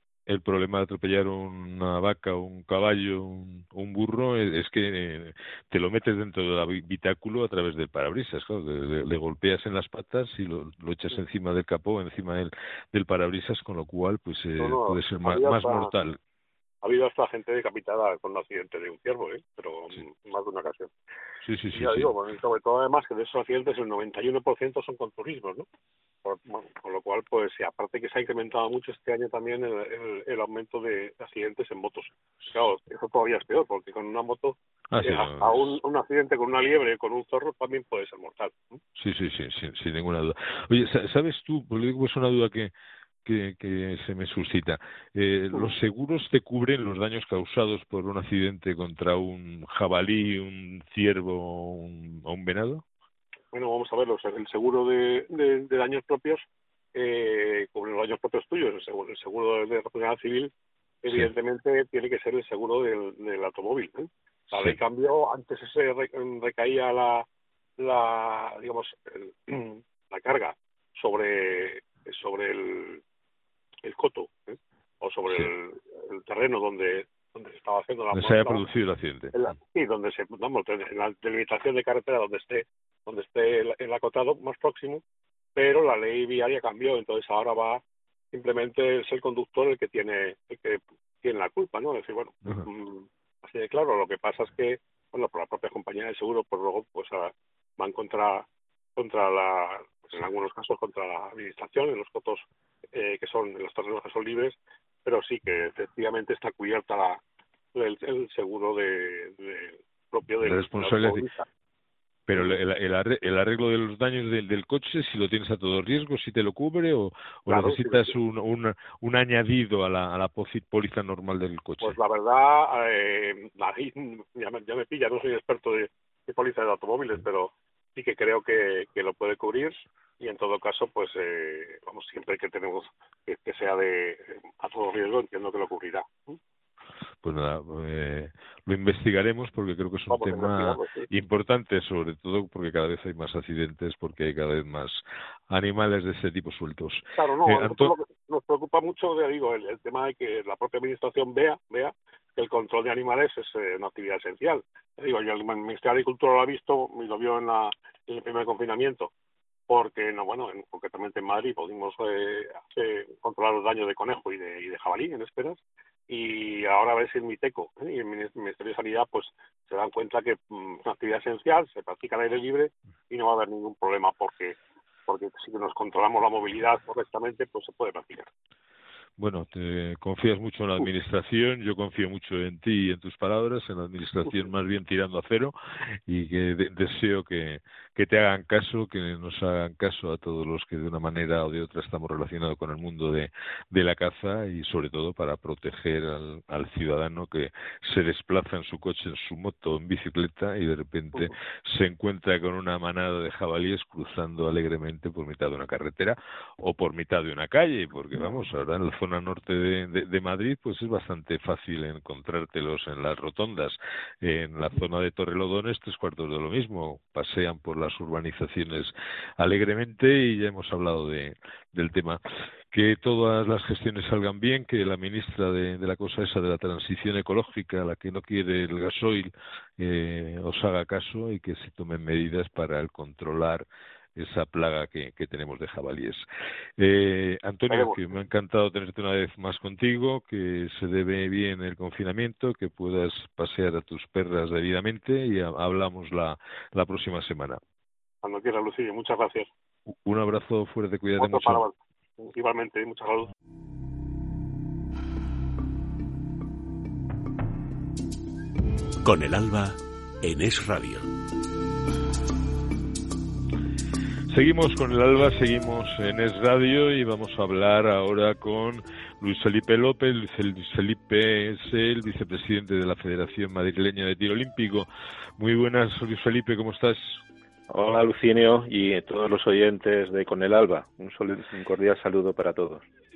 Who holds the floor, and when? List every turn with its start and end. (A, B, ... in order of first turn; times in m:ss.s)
0:00.3-0:16.2 A
0:14.6-0:15.9 B
0:16.8-0:20.9 B
0:21.4-0:22.1 A
0:21.7-0:25.6 B
0:26.2-0:38.8 B
0:34.9-0:35.7 A
0:39.0-0:42.7 A
0:43.2-0:52.8 A
0:53.5-0:56.4 B
0:56.9-1:00.5 B
1:01.0-1:07.2 B
1:04.5-1:04.8 A
1:07.8-1:13.0 B
1:13.8-1:18.6 B
1:18.1-1:19.4 A
1:19.3-1:25.0 B
1:25.6-1:27.8 B
1:28.3-1:47.2 B
1:47.7-1:51.4 B
1:50.4-1:51.2 A
1:52.3-2:02.0 A
1:57.5-1:58.1 B
2:01.8-2:16.4 B
2:17.2-2:27.9 A
2:20.1-2:21.1 B
2:27.2-2:39.1 B
2:39.7-2:54.6 B
2:55.1-2:58.3 B
2:59.2-3:05.5 A
3:06.1-3:42.2 A
3:42.7-3:56.2 A
3:56.8-4:07.6 A
3:57.7-3:58.0 B
4:08.2-4:09.5 B
4:10.0-4:11.6 A
4:11.2-4:13.3 B
4:19.0-4:21.1 C
4:24.3-4:37.2 A
4:37.7-4:42.8 D